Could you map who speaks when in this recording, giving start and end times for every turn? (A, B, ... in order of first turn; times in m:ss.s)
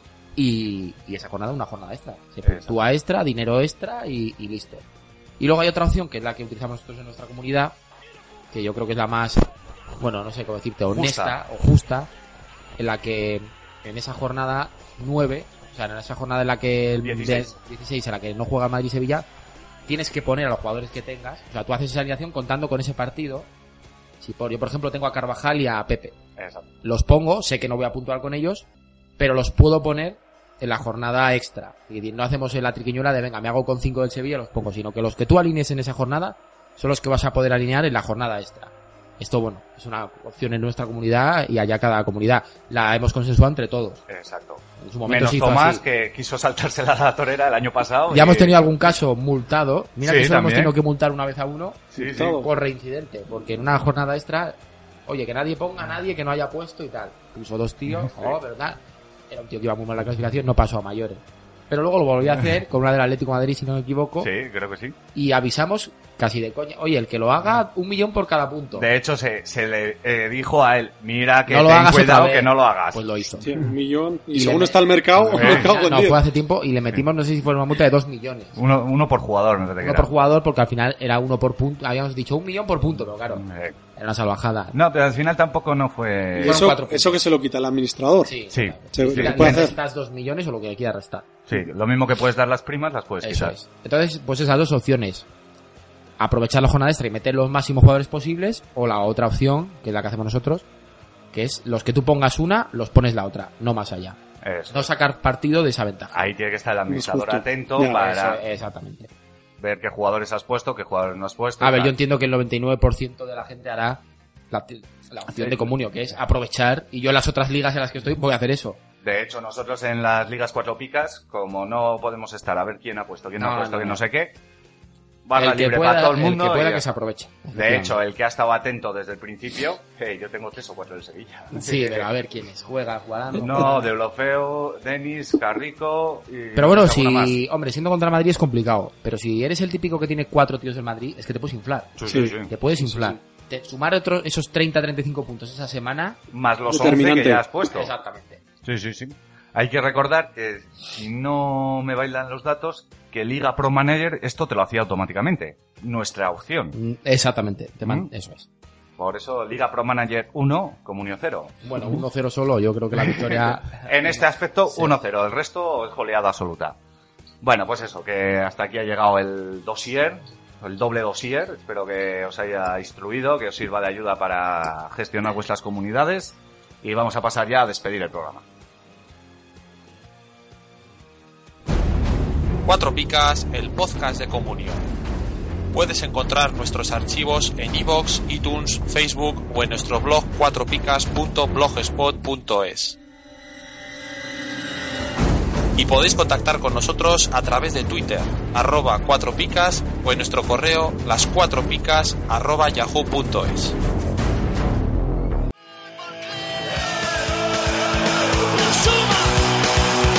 0:00.4-0:04.8 A
0:02.4-0:02.8 B
0:05.4-0:07.7 A
0:08.5-0:09.5 A
0:10.0-0:12.1 A
0:10.9-0:11.4 B
0:12.8-0:19.2 A
0:17.0-0:17.5 B
0:19.9-0:23.5 A
0:24.2-0:26.1 A
0:26.4-0:26.7 B
0:26.8-0:28.6 A
0:29.2-0:44.0 A
0:44.1-0:49.0 B
0:44.8-0:45.8 A
0:48.1-0:54.6 A
0:50.0-0:50.7 B
0:51.9-0:52.4 B
0:52.0-0:52.4 C
0:55.1-0:58.8 A
0:57.9-0:58.4 B
0:59.3-1:04.3 A
1:04.2-1:05.0 B
1:05.1-1:08.9 A
1:08.8-1:13.0 B
1:11.5-1:13.5 A
1:13.4-1:16.2 C
1:14.3-1:18.6 A
1:15.3-1:15.7 B
1:18.6-1:20.1 B
1:19.8-1:23.4 A
1:23.3-1:23.8 B
1:24.0-1:24.8 A
1:24.7-1:26.7 B
1:26.4-1:28.3 C
1:26.4-1:27.2 A
1:28.2-1:31.2 A
1:28.5-1:29.7 B
1:28.9-1:29.8 C
1:31.5-1:33.5 B
1:33.2-1:35.2 A
1:36.2-1:40.6 A
1:41.3-1:44.2 A
1:44.4-1:44.9 B
1:44.7-1:46.2 A
1:46.1-1:48.4 B
1:46.9-1:48.0 C
1:47.8-1:49.1 A
1:49.6-1:51.9 B
1:51.6-1:58.8 A
1:55.3-1:56.1 B
1:59.0-2:04.4 B
2:03.4-2:04.0 A
2:05.2-2:06.8 B
2:05.4-2:08.0 A
2:07.5-2:12.1 B
2:11.5-2:13.9 A
2:13.3-2:17.4 B
2:16.6-2:21.9 A
2:22.0-2:22.5 B
2:22.0-2:22.3 C
2:22.5-2:26.2 A
2:26.3-2:27.9 B
2:26.7-2:27.4 C
2:27.6-2:28.4 A
2:28.6-2:36.8 B
2:36.7-2:38.4 A
2:39.0-2:41.9 B
2:41.6-2:45.0 A
2:43.0-2:46.8 B
2:47.4-2:58.4 B
3:02.6-3:04.8 D
3:05.7-3:13.0 D
3:15.8-3:23.8 D